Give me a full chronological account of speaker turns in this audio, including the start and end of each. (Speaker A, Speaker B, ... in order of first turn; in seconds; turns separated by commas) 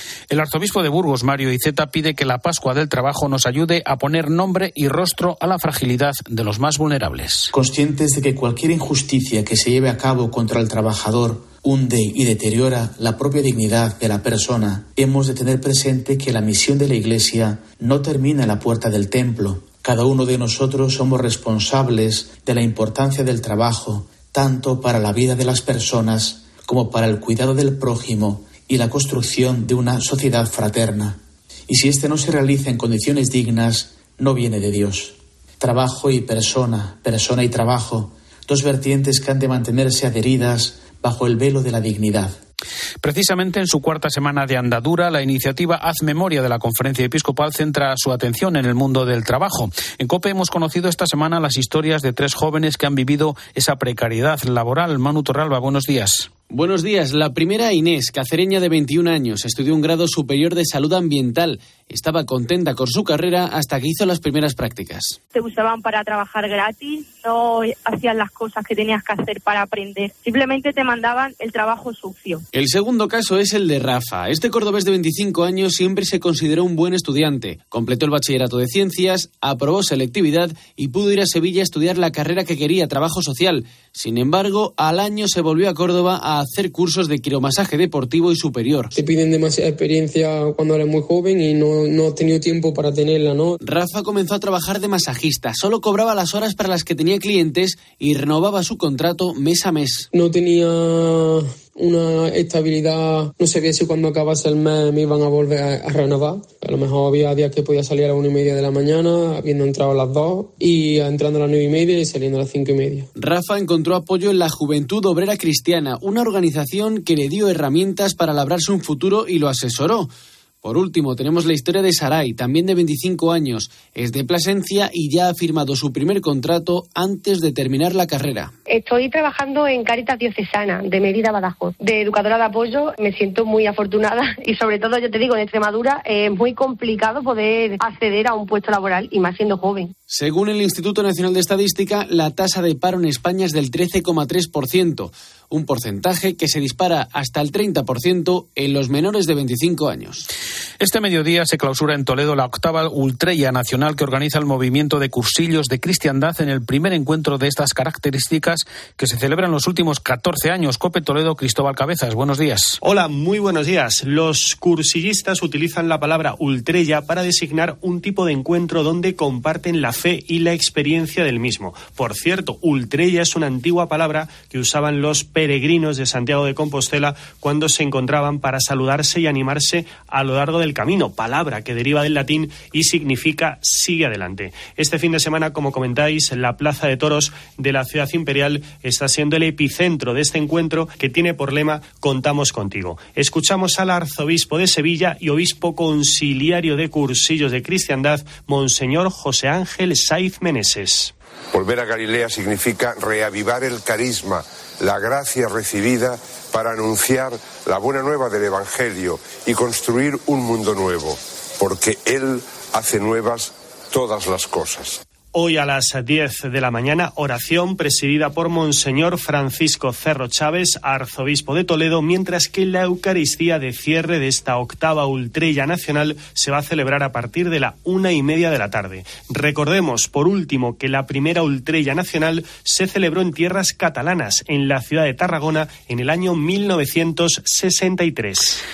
Speaker A: 0.3-7.5, Speaker B: 7.5-42.4, Speaker A: 43.0-56.3, Speaker C: 56.5-65.2, Speaker D: 65.3-72.4, Speaker C: 72.5-88.9, Speaker E: 88.9-93.6, Speaker C: 93.6-100.1, Speaker E: 100.1-113.1, Speaker C: 113.2-120.1, Speaker C: 120.6-128.5, Speaker F: 128.7-139.9, Speaker C: 140.1-150.3, Speaker A: 150.8-162.8, Speaker G: 162.8-201.1, Speaker H: 201.5-215.0, Speaker G: 215.3-238.6